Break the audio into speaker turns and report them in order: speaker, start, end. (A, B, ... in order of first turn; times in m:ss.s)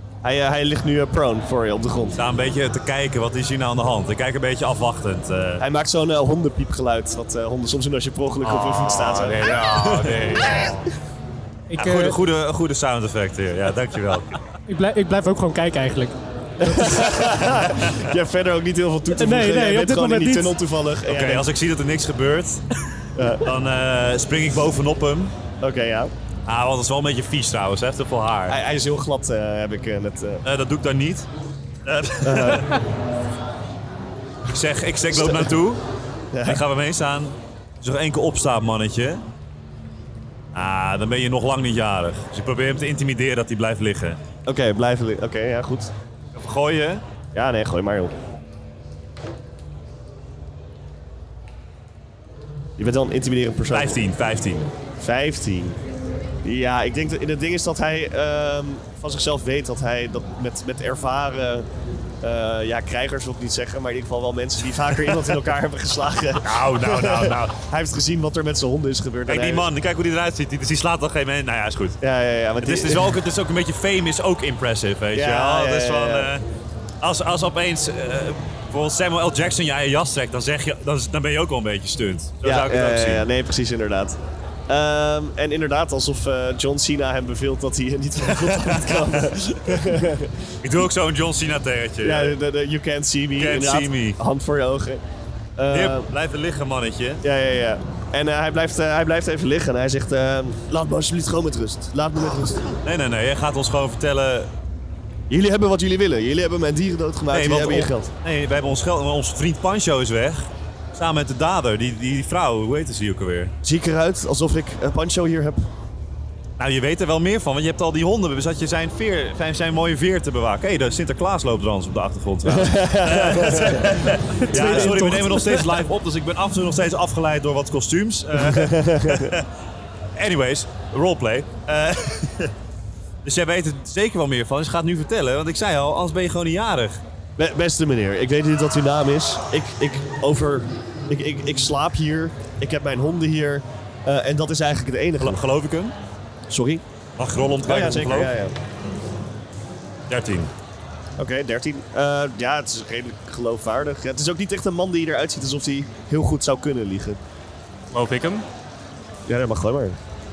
0:00.2-0:02.2 A
0:02.2-0:05.6 B
0:05.6-0:10.7 A
0:08.4-0:10.9 C
0:11.7-0:12.2 D
0:11.8-0:14.3 B
0:14.7-0:16.1 D
0:16.6-0:21.4 A
0:19.1-0:20.5 D
0:21.1-0:22.6 B
0:23.2-0:23.5 A
0:23.4-0:25.3 B
0:25.6-0:26.1 A
0:26.4-0:28.6 B
0:28.5-0:30.4 A
0:30.4-0:31.3 B
0:31.8-0:32.8 B
0:32.2-0:32.8 A
0:34.4-0:35.8 B
0:35.1-0:35.5 A
0:36.3-0:36.6 A
0:36.4-0:39.2 B
0:40.5-0:44.2 B
0:44.4-0:45.9 A
0:46.3-0:47.0 B
0:47.3-0:48.1 A
0:52.8-0:54.0 A
0:53.7-0:54.7 B
0:55.0-0:55.8 A
0:56.4-1:01.7 A
1:02.2-1:09.7 A
1:06.4-1:07.6 B
1:09.3-1:12.0 B
1:12.0-1:13.1 A
1:12.6-1:16.4 B
1:15.1-1:16.3 A
1:17.0-1:23.2 B
1:22.4-1:30.4 A
1:28.3-1:29.2 B
1:30.6-1:32.3 B
1:32.0-1:35.0 A
1:33.4-1:34.2 B
1:35.6-1:36.1 A
1:35.7-1:37.2 B
1:37.2-1:42.8 A
1:42.8-1:44.5 B
1:45.3-1:48.1 A
1:47.3-1:53.5 B
1:53.6-1:55.6 A
1:56.6-2:09.5 B
2:02.4-2:05.0 A
2:04.4-2:05.7 D
2:08.4-2:09.4 A
2:10.1-2:12.5 B
2:13.2-2:17.0 B
2:17.4-2:25.4 A
2:25.2-2:25.9 B
2:26.5-2:26.8 A
2:27.2-2:28.3 B
2:27.6-2:28.5 A
2:30.1-2:30.5 B
2:31.2-2:37.2 A
2:37.9-2:38.4 C
2:39.3-2:40.0 A